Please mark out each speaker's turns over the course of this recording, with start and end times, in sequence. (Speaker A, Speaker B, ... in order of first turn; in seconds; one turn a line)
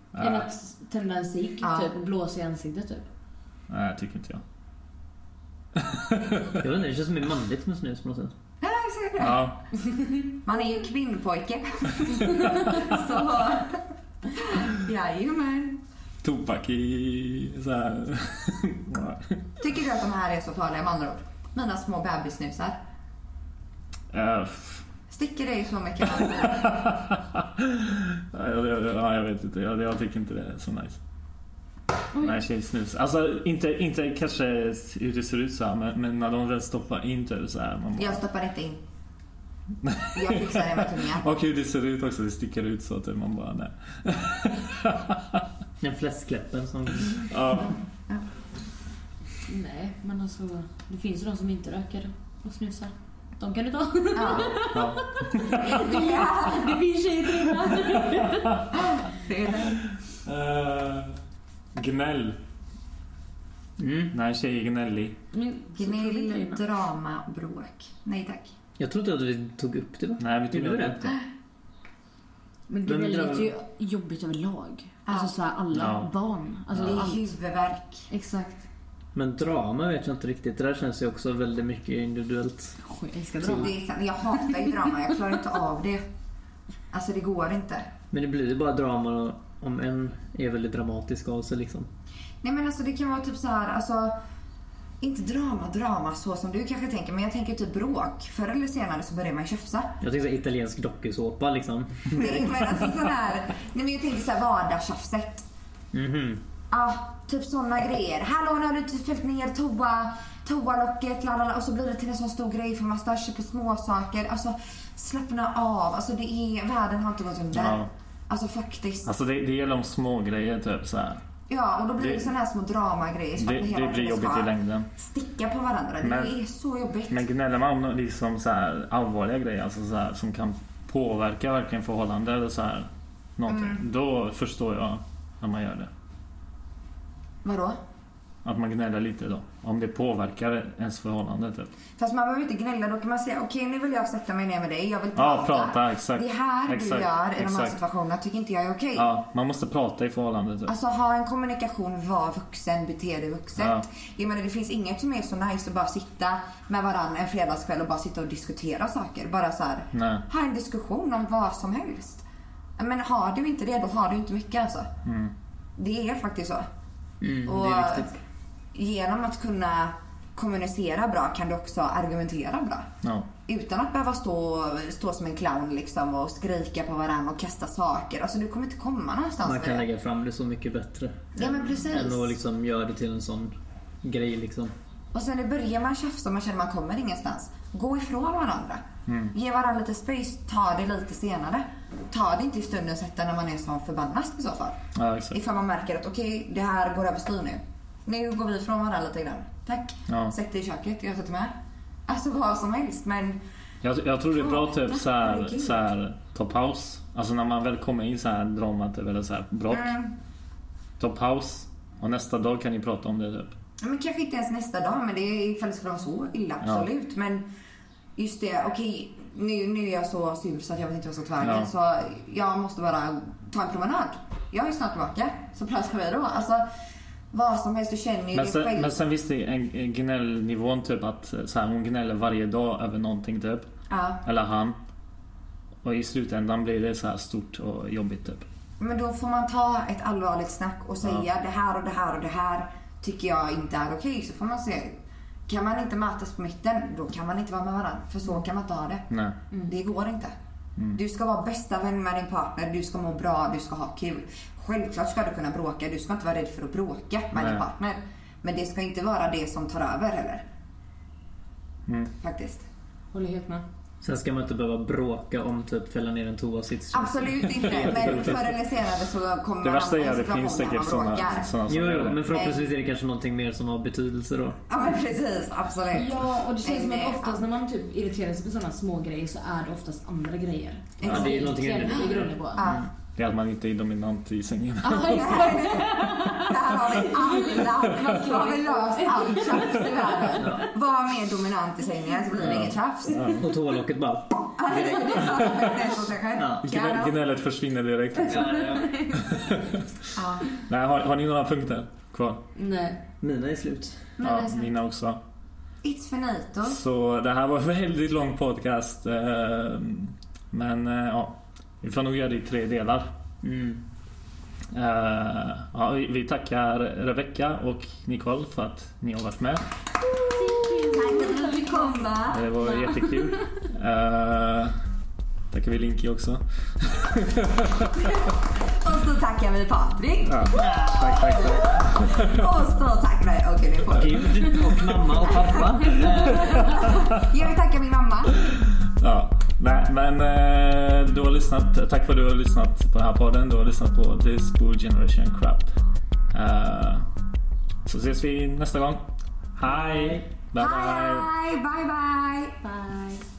Speaker A: 0.1-0.5
Speaker B: 0.2-3.0
Speaker C: 1.6-1.9
Speaker A: 3.7-4.4
Speaker A: 5.8-6.6
Speaker D: 6.6-8.3
Speaker C: 8.6-9.4
Speaker A: 9.2-9.6
Speaker C: 10.3-15.8
Speaker B: 12.4-12.8
Speaker A: 16.2-19.4
Speaker C: 19.6-22.8
Speaker A: 24.1-24.9
Speaker C: 25.1-26.9
Speaker A: 26.2-31.0
Speaker B: 32.1-32.4
Speaker A: 32.2-38.2
Speaker C: 38.0-38.8
Speaker A: 39.8-45.2
Speaker C: 40.1-41.3
Speaker D: 45.8-47.3
Speaker A: 47.2-47.8
Speaker C: 47.5-48.3
Speaker B: 49.5-58.6
Speaker C: 54.1-54.6
Speaker A: 54.4-55.9
Speaker C: 55.6-56.8
Speaker A: 57.8-58.7
Speaker C: 58.7-59.8
Speaker A: 59.6-61.2
Speaker A: 61.8-62.4
Speaker D: 63.8-64.1
Speaker A: 64.1-65.2
Speaker B: 65.3-66.6
Speaker C: 65.7-68.5
Speaker D: 68.8-71.0
Speaker A: 70.2-71.2
Speaker B: 72.7-77.3
Speaker D: 72.8-73.5
Speaker C: 75.0-75.3
Speaker A: 75.7-76.1
Speaker A: 76.7-77.0
Speaker C: 76.8-78.1
Speaker B: 78.1-78.6
Speaker D: 79.1-82.8
Speaker B: 82.8-83.8
Speaker C: 83.4-86.0
Speaker B: 84.3-84.7
Speaker C: 86.9-87.9
Speaker D: 88.1-91.9
Speaker C: 92.4-94.2
Speaker C: 95.0-100.0
Speaker D: 100.0-103.0
Speaker C: 102.1-105.5
Speaker D: 105.9-106.4
Speaker C: 106.7-119.1
Speaker A: 117.5-117.9
Speaker A: 119.0-121.2
Speaker C: 121.5-127.2
Speaker A: 122.0-122.3
Speaker A: 123.4-124.9
Speaker A: 126.0-126.3
Speaker A: 127.1-135.9
Speaker C: 133.5-133.8
Speaker C: 137.4-137.8
Speaker A: 138.4-141.7
Speaker C: 142.0-149.1
Speaker A: 145.2-147.8
Speaker A: 148.9-150.7
Speaker C: 150.7-162.2
Speaker A: 153.6-153.8
Speaker A: 159.9-160.2
Speaker C: 162.8-164.9
Speaker A: 165.1-165.3
Speaker C: 165.8-166.7
Speaker D: 167.2-168.2
Speaker C: 167.4-168.1
Speaker C: 168.7-172.9
Speaker A: 173.0-173.3
Speaker C: 173.4-179.9
Speaker D: 179.4-184.7
Speaker C: 181.3-182.4
Speaker C: 185.1-201.5
Speaker A: 189.1-189.3
Speaker A: 194.9-195.4
Speaker A: 200.1-200.3
Speaker C: 202.1-203.4
Speaker A: 203.8-209.9
Speaker C: 204.3-205.8
Speaker C: 209.7-210.1
Speaker A: 211.0-213.6
Speaker C: 213.8-217.5
Speaker C: 218.2-226.6
Speaker A: 221.4-221.7
Speaker C: 227.3-229.0
Speaker A: 228.3-233.7
Speaker C: 233.9-234.2
Speaker A: 234.2-234.8
Speaker A: 235.8-238.4
Speaker C: 238.8-249.1
Speaker A: 249.1-249.3
Speaker C: 249.7-250.3
Speaker C: 250.9-260.4
Speaker A: 257.4-257.6
Speaker C: 262.2-262.6
Speaker B: 263.1-263.6
Speaker D: 264.0-268.4
Speaker C: 266.9-271.5
Speaker A: 267.5-268.6
Speaker A: 269.6-272.3
Speaker D: 271.7-274.6
Speaker C: 272.3-272.6
Speaker C: 274.7-277.4
Speaker B: 275.9-282.8
Speaker C: 281.0-282.9
Speaker D: 281.0-282.9
Speaker A: 283.1-285.9
Speaker B: 284.8-290.7
Speaker C: 284.9-293.4
Speaker D: 290.4-290.6
Speaker A: 292.4-293.5
Speaker D: 293.4-295.8
Speaker C: 294.6-297.2
Speaker A: 295.3-295.8
Speaker D: 296.4-296.6
Speaker A: 296.6-298.6
Speaker B: 298.1-299.7
Speaker D: 298.2-298.9
Speaker A: 299.2-299.7
Speaker C: 300.1-300.5
Speaker A: 300.6-302.4
Speaker B: 302.5-303.0
Speaker D: 303.2-304.0
Speaker C: 304.2-304.7
Speaker A: 304.2-305.2
Speaker C: 305.8-306.8
Speaker A: 306.6-313.1
Speaker D: 313.4-313.8
Speaker A: 314.7-319.6
Speaker B: 320.3-322.0
Speaker C: 320.8-322.5
Speaker A: 322.3-324.8
Speaker B: 322.6-323.5
Speaker A: 325.5-328.2
Speaker C: 328.7-338.4
Speaker A: 330.2-332.4
Speaker D: 330.5-331.8
Speaker D: 333.9-337.0
Speaker A: 336.4-337.0
Speaker A: 338.5-345.7
Speaker A: 346.3-347.1
Speaker A: 347.9-351.3
Speaker D: 349.6-350.2
Speaker C: 350.6-352.6
Speaker B: 352.6-353.2